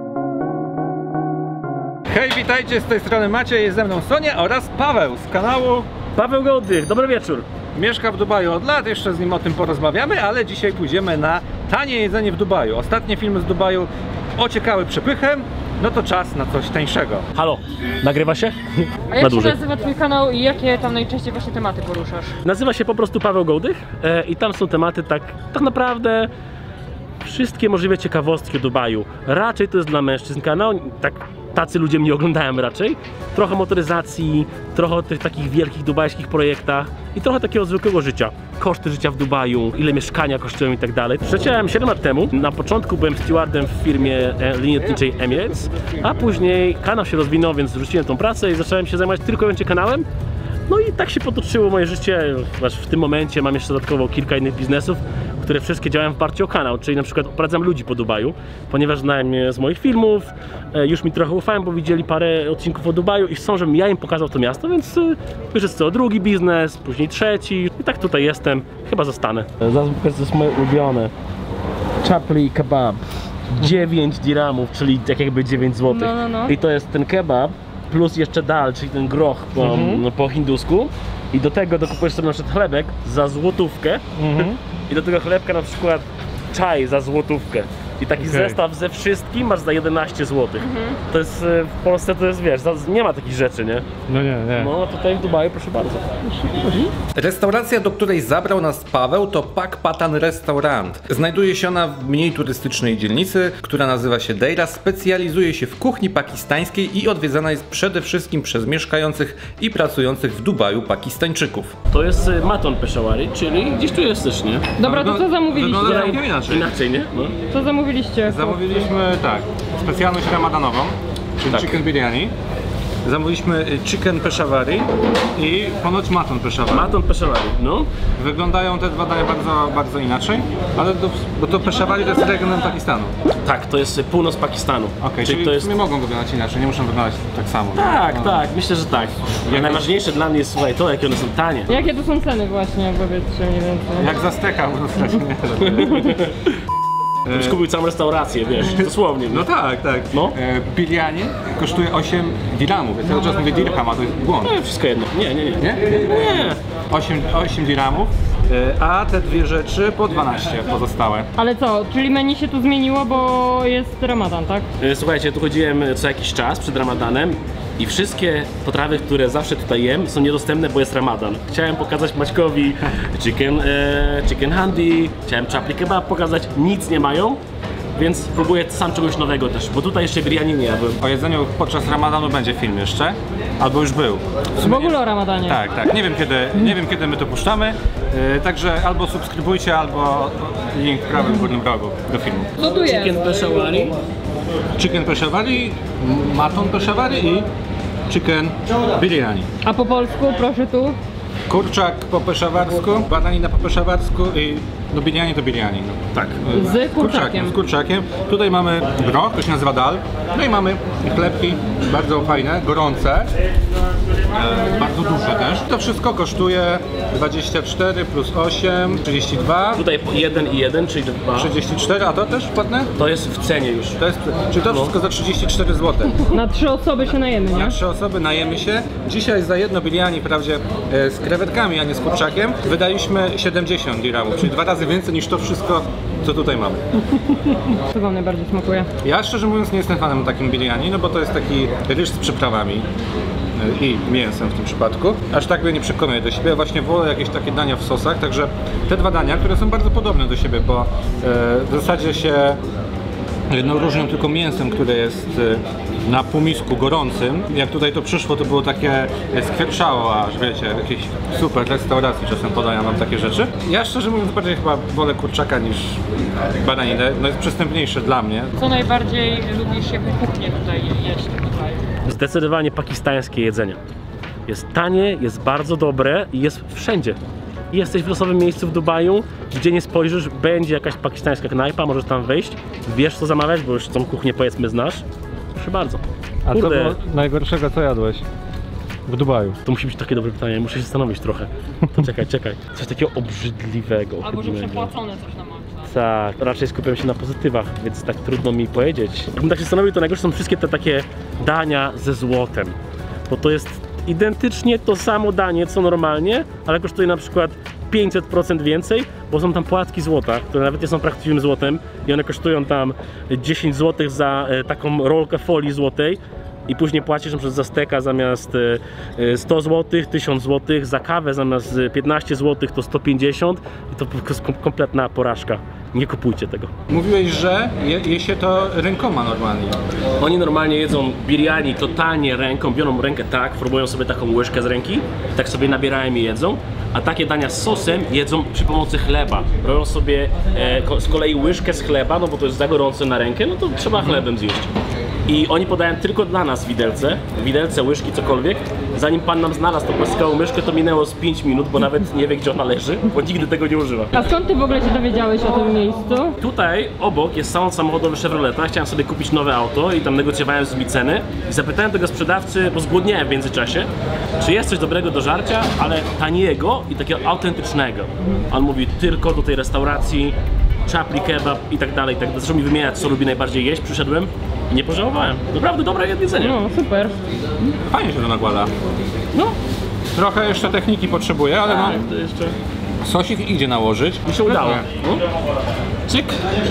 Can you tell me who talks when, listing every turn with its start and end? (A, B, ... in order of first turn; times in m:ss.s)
0:02.1-0:05.8 A
0:06.1-0:07.4 B
0:07.7-0:17.2 A
0:17.3-0:19.6 B
0:19.1-0:22.3 C
0:22.4-0:26.3 B
0:27.2-0:50.0 B
0:50.7-1:11.1 B
1:12.0-1:24.0 B
1:15.8-1:16.5 C
1:19.6-1:20.0 A
1:24.2-1:24.6 A
1:24.9-1:33.8 B
1:28.2-1:28.6 A
1:34.1-1:34.7 A
1:34.5-1:36.8 B
1:37.1-1:51.8 A
1:51.9-1:54.8 B
1:54.8-1:56.2 C
1:54.8-1:56.7 A
1:55.8-1:57.4 B
1:57.5-1:58.8 C
1:58.2-2:02.3 A
2:01.5-2:01.8 B
2:03.0-2:07.0 A
2:06.7-2:07.9 B
2:08.2-2:13.1 A
2:13.4-2:15.7 B
2:15.0-2:18.4 A
2:17.7-2:21.7 B
2:19.4-2:19.9 A
2:21.7-2:24.1 C
2:24.0-2:26.2 A
2:25.6-2:26.5 B
2:27.2-2:27.6 A
2:27.3-2:29.5 B
2:28.7-2:34.5 A
2:34.4-2:36.6 B
2:35.6-2:41.3 A
2:41.4-2:44.6 C
2:44.8-2:57.4 B
2:58.0-3:01.0 B
3:01.0-3:12.5 A
3:04.6-3:05.6 C
3:12.6-3:14.0 B
3:12.6-3:13.2 C
3:14.8-3:17.4 A
3:18.1-3:19.5 A
3:19.6-3:21.0 C
3:21.5-3:33.3 A
3:26.1-3:26.4 B
3:26.5-3:27.6 C
3:34.3-3:39.8 A
3:39.7-3:41.5 B
3:41.3-3:42.9 A
3:43.0-3:44.0 B
3:44.0-3:46.3 A
3:44.6-3:44.9 B
3:46.3-3:47.8 C
3:47.5-3:56.8 A
3:57.9-3:58.9 C
3:59.0-4:02.9 A
4:03.5-4:12.6 A
4:13.5-4:28.6 A
4:28.6-4:31.8 C
4:32.0-4:33.8 B
4:34.5-4:37.2 B
4:37.7-4:47.0 B
4:46.4-4:48.2 A
4:49.1-4:49.6 A
4:49.6-4:54.9 B
4:54.2-4:55.9 C
4:55.9-5:02.8 B
5:03.3-5:26.7 B
5:26.9-5:29.8 A
5:30.2-5:44.7 B
5:45.3-5:54.2 B
5:54.1-5:56.4 C
5:56.4-6:10.3 B
6:10.8-6:16.6 B
6:16.4-6:17.2 C
6:17.6-6:18.7 A
6:20.1-6:22.0 A
6:21.6-6:22.6 B
6:23.0-6:24.8 A
6:24.2-6:25.2 B
6:26.1-6:26.4 B